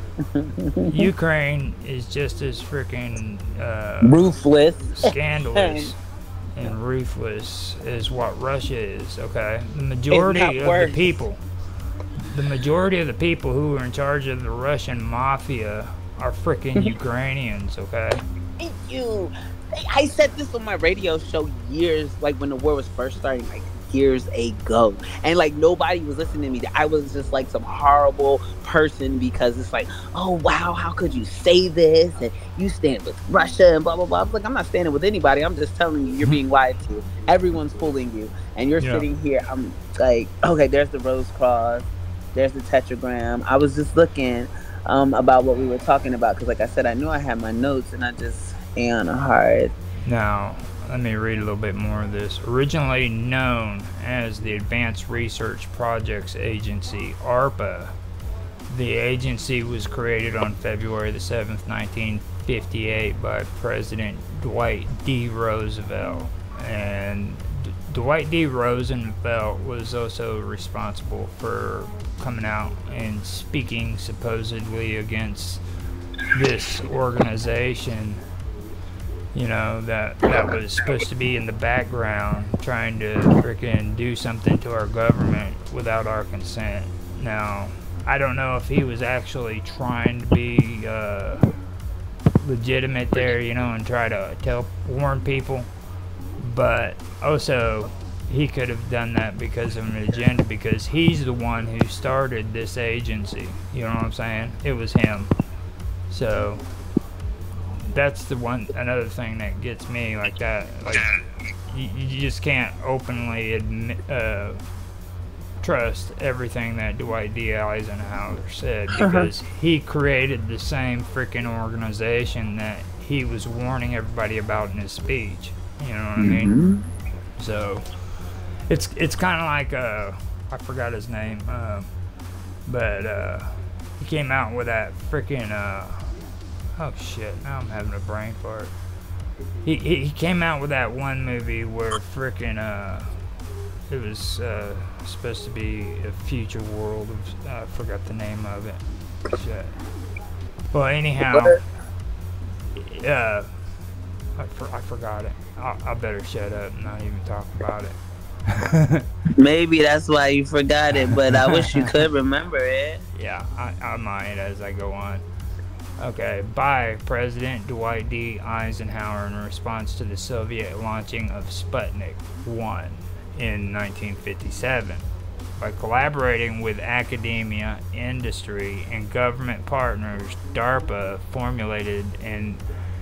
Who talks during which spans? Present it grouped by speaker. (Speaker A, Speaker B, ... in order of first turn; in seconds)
Speaker A: 0.2-1.1, 4.0-5.9, 10.1-11.2, 18.6-49.7, 119.0-119.3, 126.2-126.8, 151.3-151.6, 159.3-163.0
Speaker B: 0.9-4.2, 5.0-6.0, 6.5-11.4, 12.2-18.2, 38.8-39.1, 50.0-58.0, 58.7-75.6, 76.3-78.2, 79.3-91.5, 92.4-95.7, 96.4-105.3, 106.1-106.6, 107.9-111.2, 111.7-114.6, 115.6-126.6, 127.4-127.9, 128.7-131.9, 132.7-136.2, 136.8-138.7, 139.6-143.2, 143.9-149.7, 150.7-151.6, 152.7-153.6, 154.4-158.0, 158.5-159.1, 161.1-161.9, 163.1-165.2, 166.0-175.1, 175.6-182.6